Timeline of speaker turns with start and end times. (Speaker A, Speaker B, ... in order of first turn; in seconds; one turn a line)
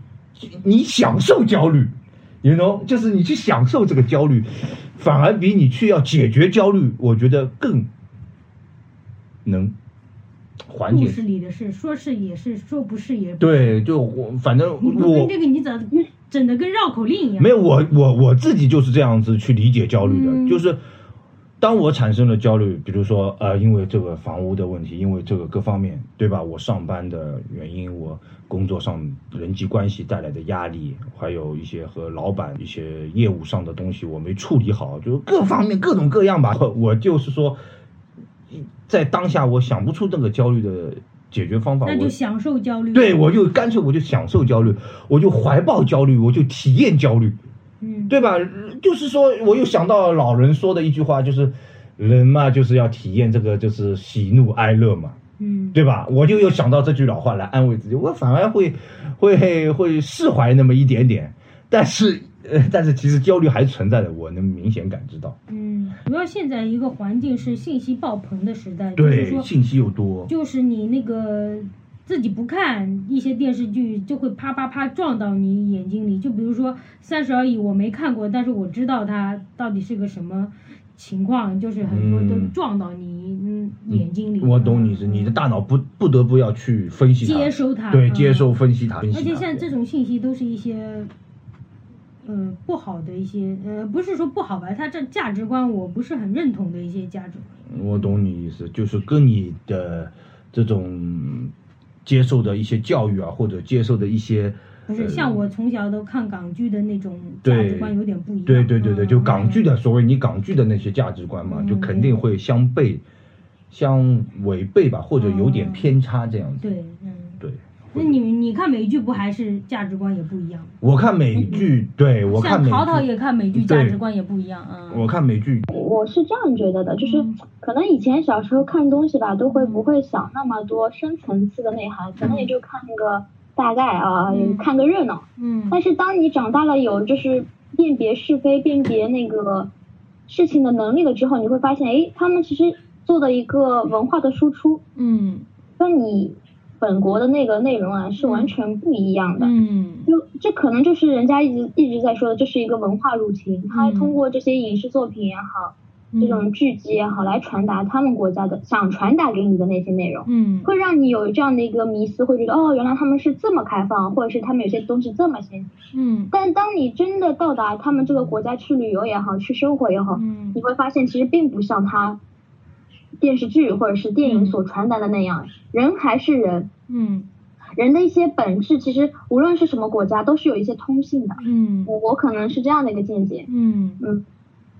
Speaker A: 0.3-7.9
Speaker A: 9.4-9.7
Speaker A: 10.7-11.2
Speaker B: 10.9-13.8
Speaker A: 13.4-15.3
Speaker B: 14.8-17.5
Speaker A: 17.4-20.8
Speaker B: 20.0-20.6
Speaker A: 21.6-37.6
Speaker A: 38.5-42.1
Speaker B: 41.8-43.1
Speaker A: 42.9-47.4
Speaker B: 47.8-48.1
Speaker A: 48.1-55.2
Speaker B: 55.4-55.8
Speaker A: 55.7-65.4
Speaker B: 65.5-69.5
Speaker A: 69.0-70.3
Speaker B: 70.3-85.4
Speaker A: 81.8-82.5
Speaker A: 83.9-89.7
Speaker B: 87.2-88.5
Speaker B: 89.1-91.1
Speaker B: 92.2-98.1
Speaker A: 97.7-101.5
Speaker A: 102.0-105.5
Speaker B: 104.9-109.6
Speaker A: 107.4-107.9
Speaker A: 108.5-113.0
Speaker B: 111.5-112.2
Speaker A: 113.7-116.6
Speaker B: 115.2-115.9
Speaker B: 116.6-117.4
Speaker A: 117.4-118.1
Speaker B: 117.9-120.7
Speaker A: 120.8-124.0
Speaker B: 121.4-121.7
Speaker B: 122.3-125.0
Speaker A: 124.9-125.7
Speaker C: 125.7-139.7
Speaker B: 127.0-127.3
Speaker B: 129.5-129.9
Speaker B: 132.2-132.5
Speaker B: 134.3-134.7
Speaker B: 135.4-135.8
Speaker C: 140.3-144.8
Speaker B: 144.9-145.4
Speaker C: 145.8-149.5
Speaker B: 148.2-148.5
Speaker B: 149.4-150.1
Speaker C: 150.1-165.7
Speaker B: 153.7-154.2
Speaker B: 156.1-156.4
Speaker B: 160.2-160.7
Speaker B: 165.9-166.3
Speaker C: 166.3-172.2
Speaker B: 170.1-170.6
Speaker C: 173.2-176.7
Speaker B: 174.2-174.6
Speaker B: 176.9-177.3
Speaker C: 177.8-183.5
Speaker B: 181.4-181.9
Speaker B: 183.5-184.0